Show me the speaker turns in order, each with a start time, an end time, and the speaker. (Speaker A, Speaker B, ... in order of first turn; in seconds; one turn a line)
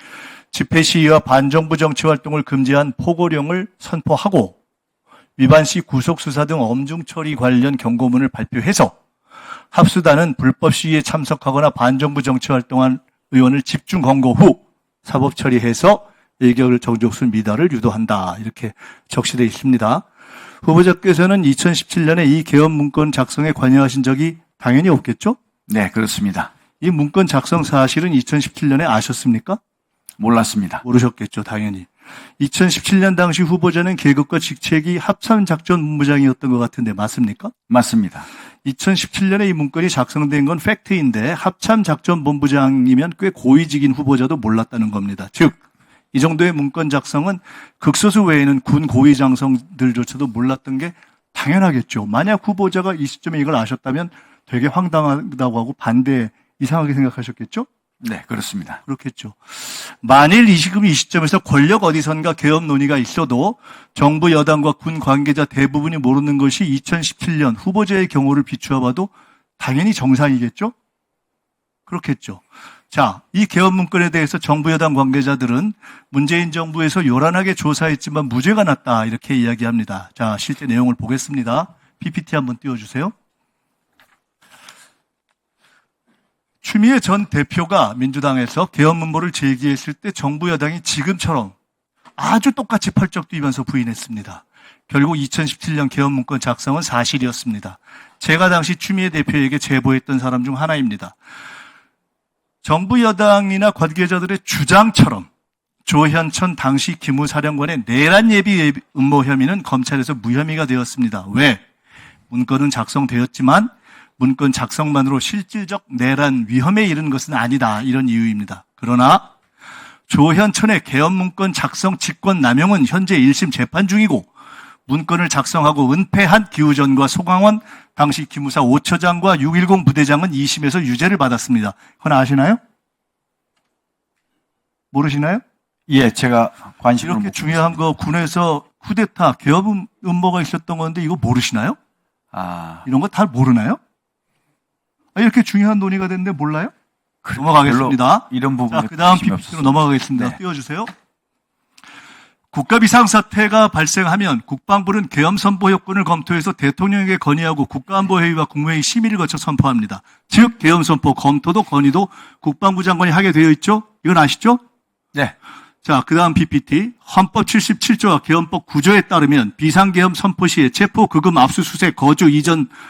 Speaker A: 0.5-4.5
Speaker A: 5.4-9.0
Speaker A: 9.7-20.0
Speaker A: 20.6-25.4
Speaker B: 25.7-26.5
Speaker A: 26.8-29.6
Speaker B: 30.2-30.8
Speaker A: 30.8-37.5
Speaker B: 37.7-38.3
Speaker A: 38.6-45.6
Speaker A: 46.1-57.7
Speaker B: 58.0-58.8
Speaker A: 58.9-70.7
Speaker A: 71.9-83.1
Speaker A: 86.6-91.5
Speaker A: 92.2-101.2
Speaker A: 102.6-105.3
Speaker A: 105.8-111.6
Speaker A: 112.3-119.3
Speaker A: 120.1-124.3
Speaker A: 124.9-132.6
Speaker A: 134.9-135.4
Speaker B: 135.9-137.8
Speaker A: 137.0-141.8
Speaker B: 142.3-142.8
Speaker A: 142.8-143.8
Speaker A: 145.1-146.7
Speaker B: 147.2-150.4
Speaker A: 147.3-150.9
Speaker A: 152.5-164.6
Speaker A: 165.8-172.7